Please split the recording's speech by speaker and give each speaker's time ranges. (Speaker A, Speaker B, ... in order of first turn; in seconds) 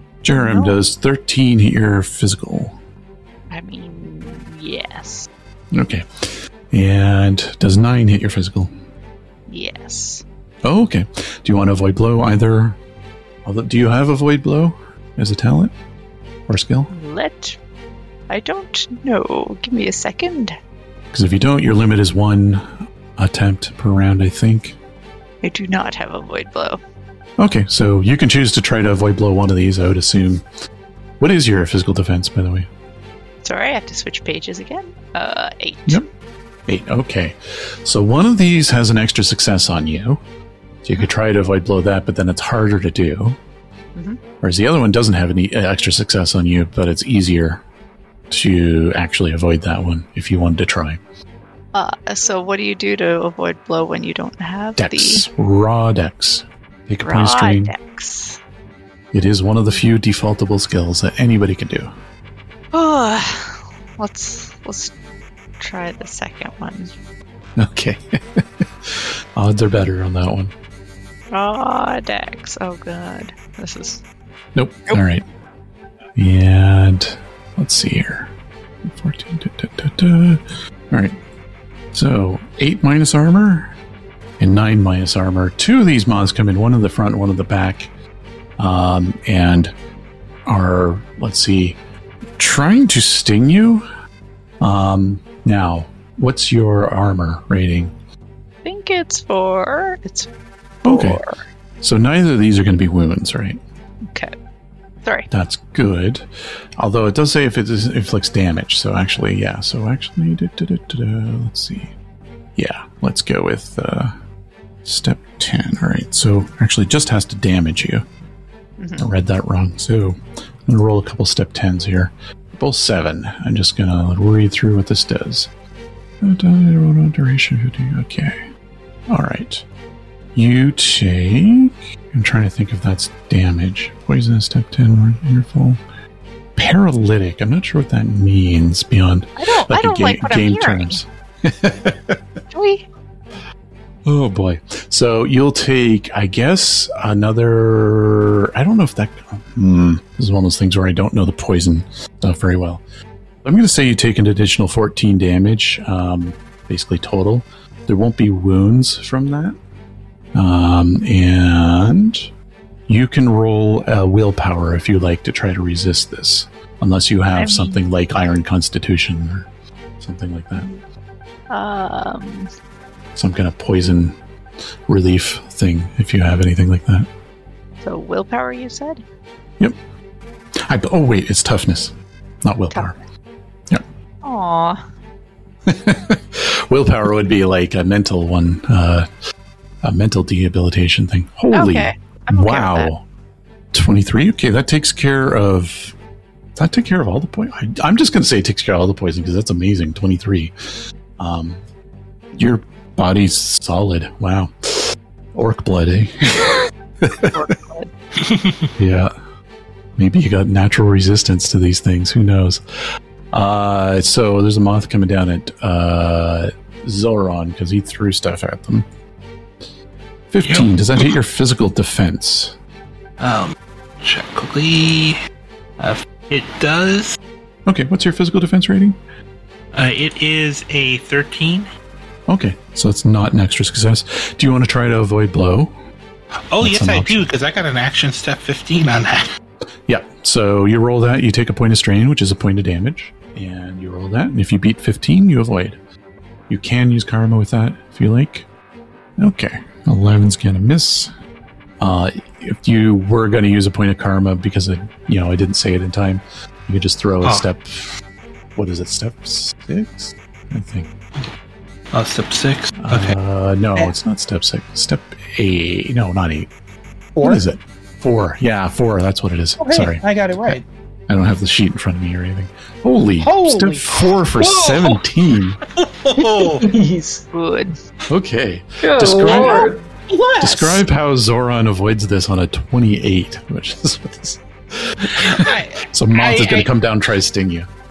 Speaker A: 0.2-2.8, 5.7-8.7, 10.6-12.8, 13.4-15.7, 16.5-16.9, 21.1-24.8, 27.4-30.4, 31.2-32.7, 36.6-40.2, 40.8-43.4, 44.4-47.6, 48.3-51.0, 54.8-57.7, 59.1-61.9, 67.6-70.5, 74.5-75.2, 76.2-78.3, 78.8-81.2, 81.9-83.7, 84.4-87.9, 88.6-89.7, 90.5-91.8, 92.4-93.8, 94.6-97.9, 100.8-101.2, 101.8-103.6, 105.3-111.9, 112.5-114.2, 114.8-118.0, 119.0-125.5, 126.2-128.4, 129.1-129.7, 130.3-135.8, 136.6-142.2, 144.0-152.8, 153.4-159.6, 160.3-162.3, 162.9-169.5, 170.0-170.8, 173.2-174.2, 174.9-177.1, 180.6-183.0, 185.7-189.1, 189.8-193.0, 193.7-195.9, 196.6-201.6, 202.3-207.6, 208.8-209.1, 210.0-212.6, 213.3-218.9, 220.3-222.6, 227.7-229.0, 232.3-235.7, 236.6-237.2, 239.9-245.8, 246.5-248.5, 249.2-251.1, 251.8-258.0, 258.6-260.9, 262.8-266.5, 267.2-275.6, 278.1-279.7, 280.4-287.7
Speaker B: 0.3-0.7, 3.5-5.3, 9.5-10.2, 16.9-17.6, 18.3-20.6, 25.4-26.8, 33.4-36.0, 51.7-55.2, 57.0-58.4, 62.7-64.9, 65.6-66.9, 71.3-74.0, 98.6-100.3, 100.8-101.4, 118.8-119.1, 139.4-141.0, 142.5-142.8, 167.3-167.8, 171.5-172.5, 177.8-179.0, 184.2-184.8, 191.5-192.9, 207.3-207.9, 277.3-277.8
Speaker C: 208.2-208.7, 223.2-225.2, 225.8-227.2, 229.7-231.7, 236.5-239.3, 261.9-263.1, 274.3-275.0, 275.7-276.6, 285.1-286.7
Speaker D: 267.1-267.4, 269.6-270.6, 273.2-274.1, 279.2-280.8
Speaker E: 276.4-277.3, 278.8-279.8